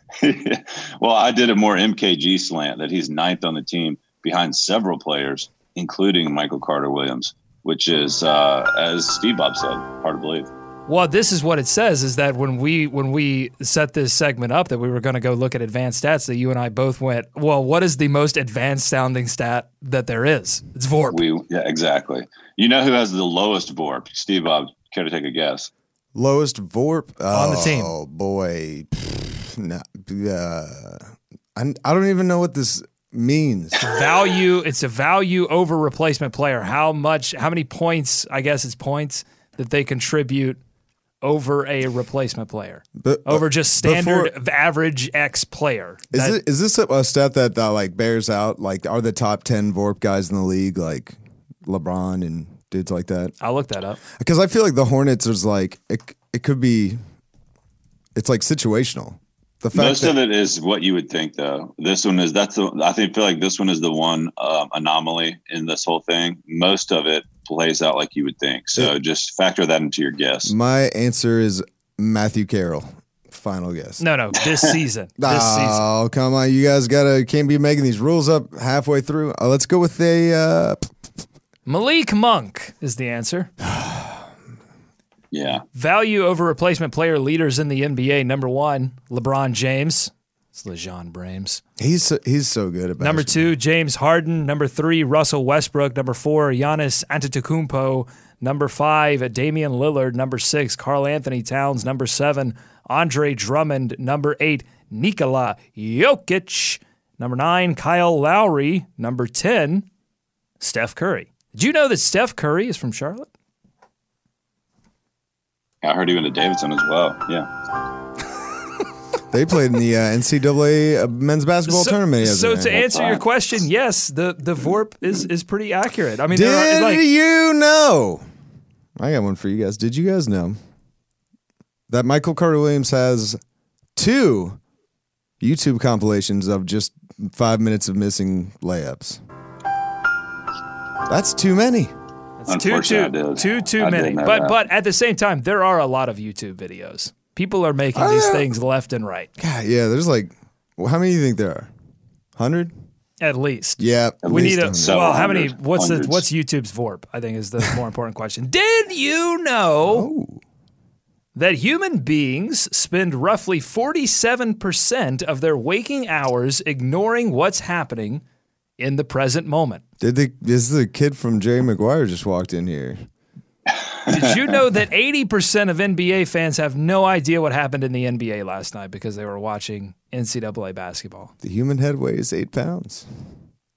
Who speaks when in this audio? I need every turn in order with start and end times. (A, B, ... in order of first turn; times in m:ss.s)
0:00.2-0:10.5 A
0:10.9-0:21.2 B
0:21.1-0:25.7 A
0:26.1-0:33.8 C
0:27.3-0:27.9 B
0:33.8-0:40.6 B
0:41.2-0:46.4 B
0:43.0-0:44.3 C
0:46.1-0:53.3 C
0:53.4-0:54.0 B
0:54.1-0:57.0 C
0:58.2-1:00.2 C
0:59.7-1:10.5 A
1:10.4-1:14.0 C
1:14.0-1:15.8 B
1:15.2-1:20.9 C
1:21.7-1:23.5 B
1:23.6-1:24.3 C
1:25.3-1:25.6 A
1:25.7-1:31.6 B
1:31.8-1:33.5 C
1:33.0-1:49.8 B
1:50.6-1:53.3 B
1:55.8-1:57.5 A
1:59.3-2:03.0 C
2:01.6-2:07.0 B
2:02.9-2:03.2 A
2:06.3-2:08.2 C
2:09.0-2:10.6 C
2:11.9-2:13.4 C
2:14.0-2:14.6 C
2:15.4-2:19.2 C
2:21.1-2:21.9 C
2:22.4-2:29.3 B
2:22.5-2:24.5 A
2:27.9-2:28.5 C
2:29.4-2:31.7 C
2:32.4-2:32.7 C
2:33.2-2:40.1 B
2:33.8-2:35.2 C
2:34.2-2:36.2 A
2:39.8-2:40.4 C
2:41.3-2:48.2 B
2:48.8-2:49.8 B
2:50.0-2:53.0 C
2:53.8-2:54.4 A
2:54.1-3:01.3 B
3:01.4-3:03.1 C